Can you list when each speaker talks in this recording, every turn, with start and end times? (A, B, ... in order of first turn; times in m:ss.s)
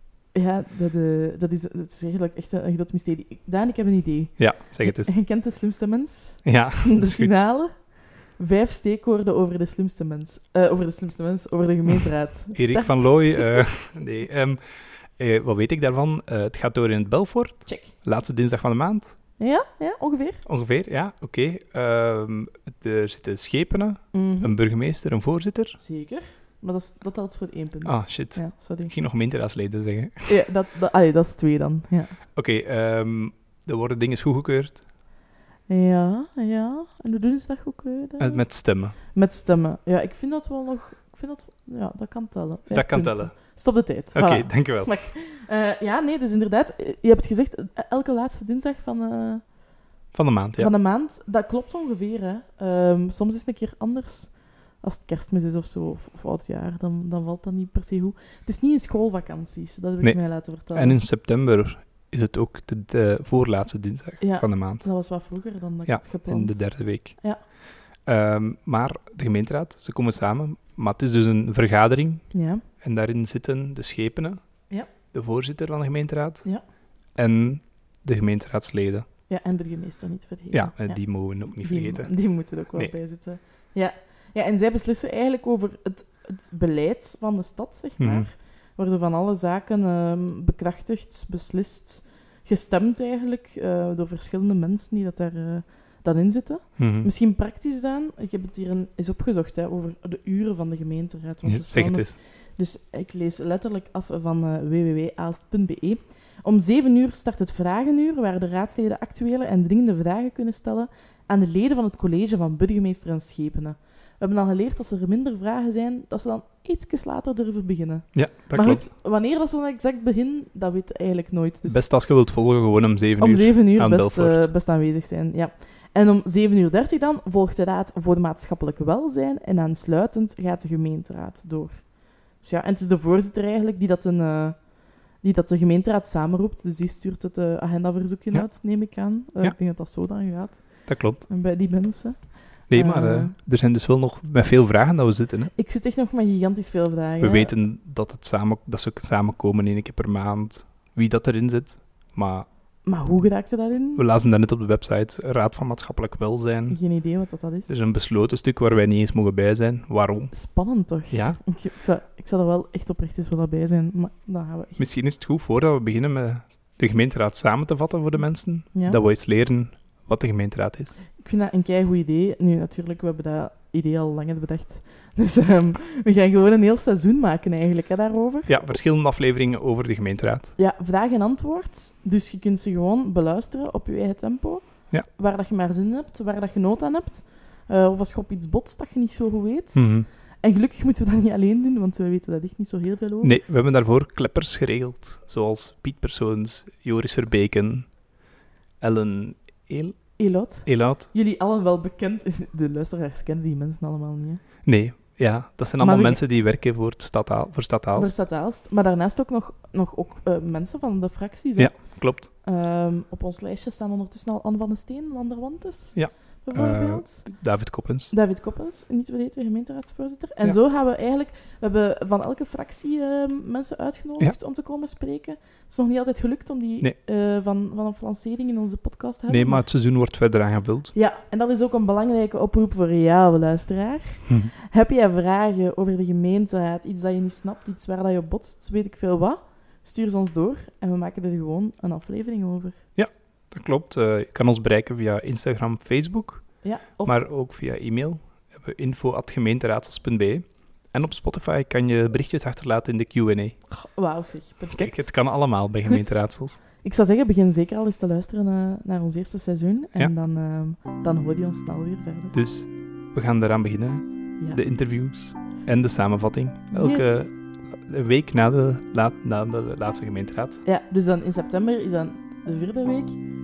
0:00.3-0:13.6 A
0:04.4-0:05.1 B
0:06.4-0:07.3 B
0:12.5-0:19.2 B
0:17.7-0:17.9 A
0:19.4-0:20.4 A
0:20.4-0:25.8 B
0:24.1-0:24.6 A
0:25.8-0:28.9 A
0:27.8-0:30.3 B
0:30.3-0:32.2 A
0:32.3-0:34.8 B
0:35.7-0:49.5 A
0:38.2-0:39.0 B
0:42.7-0:44.9 B
0:50.1-0:50.7 B
0:50.6-1:01.0 A
1:00.0-1:05.1 B
1:04.2-1:07.4 A
1:05.8-1:07.5 B
1:08.0-1:14.4 B
1:12.3-1:12.6 A
1:15.1-1:16.5 B
1:17.1-1:19.0 B
1:19.3-2:01.9 A
1:20.5-1:22.2 B
1:28.0-1:28.3 B
1:36.8-1:37.1 B
1:41.4-1:42.2 B
1:58.1-1:58.9 B
2:01.7-2:04.5 B
2:03.2-2:23.3 A
2:18.3-2:19.6 B
2:20.9-2:21.2 B
2:22.7-2:25.5 B
2:25.6-2:27.5 A
2:27.2-2:32.5 B
2:32.8-2:34.0 A
2:34.0-2:37.0 B
2:36.7-2:37.8 A
2:37.7-2:41.4 B
2:40.3-2:44.9 A
2:44.8-2:51.0 B
2:48.7-2:49.0 A
2:51.2-2:58.8 A
2:58.5-3:00.5 B
3:00.6-3:13.4 A
3:09.7-3:10.1 B
3:13.2-3:18.1 B
3:18.8-3:21.1 B
3:20.2-3:24.4 A
3:24.6-3:28.2 B
3:25.8-3:26.2 A
3:27.9-3:49.6 A
3:31.6-3:32.3 B
3:35.9-3:38.1 B
3:49.3-3:50.9 B
3:50.9-4:02.8 A
4:03.0-4:13.6 B
4:06.6-4:07.2 A
4:13.7-4:22.3 A
4:14.7-4:16.6 B
4:22.3-4:27.3 B
4:26.7-4:27.3 A
4:27.8-4:30.6 B
4:30.6-4:33.2 A